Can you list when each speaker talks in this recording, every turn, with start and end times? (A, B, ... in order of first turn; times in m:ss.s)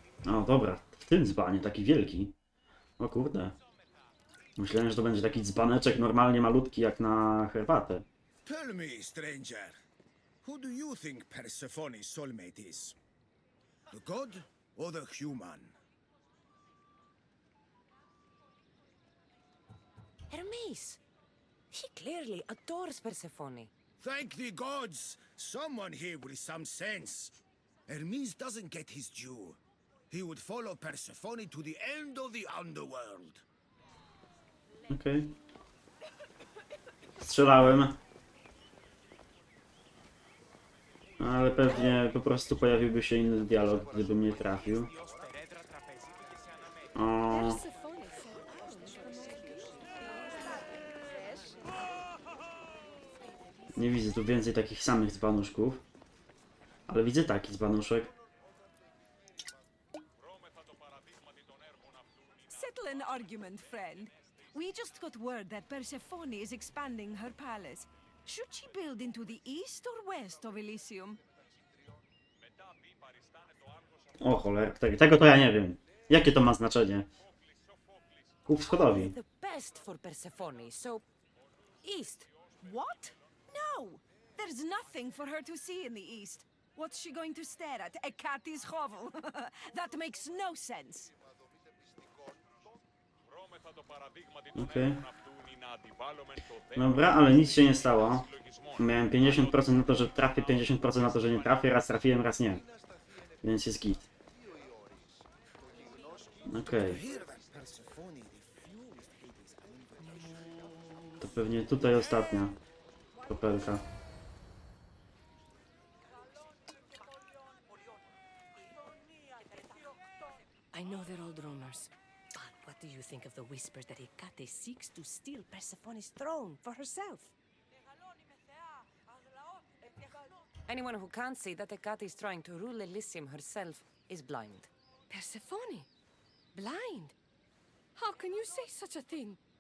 0:00.2-0:02.4 A
0:03.0-0:03.6 A
0:04.6-0:08.1 A
0:08.4-0:09.8 B
0:10.4-0:13.0 B
0:13.9-0:15.8 B
0:20.3-0:21.0 C
0:21.7-0:23.7 C
0:24.0-0:27.4 B
0:27.9-0:29.6 B
0:30.1-0:33.4 B
0:34.9-0:35.4 A
0:37.2-0:38.0 A
0:41.2-0:44.9 A
0:47.0-0:47.6 A
0:47.3-0:51.7 D
0:53.7-0:55.8 A
0:56.9-0:58.1 A
1:02.5-1:11.2 D
1:14.2-1:17.1 A
1:18.4-1:19.2 A
1:18.7-1:21.0 C
1:21.8-1:22.3 C
1:22.6-1:31.1 D
1:34.6-1:35.1 A
1:36.7-1:42.6 A
1:43.4-1:44.1 A
1:46.5-1:47.0 A
1:46.7-1:50.7 B
1:51.2-1:52.6 A
1:53.3-1:53.8 A
2:00.7-2:01.9 C
2:02.5-2:06.2 E
2:02.5-2:06.4 C
2:06.2-2:07.3 D
2:10.7-2:14.7 C
2:15.1-2:15.9 D
2:15.2-2:15.6 E
2:16.5-2:17.2 D
2:18.0-2:19.4 E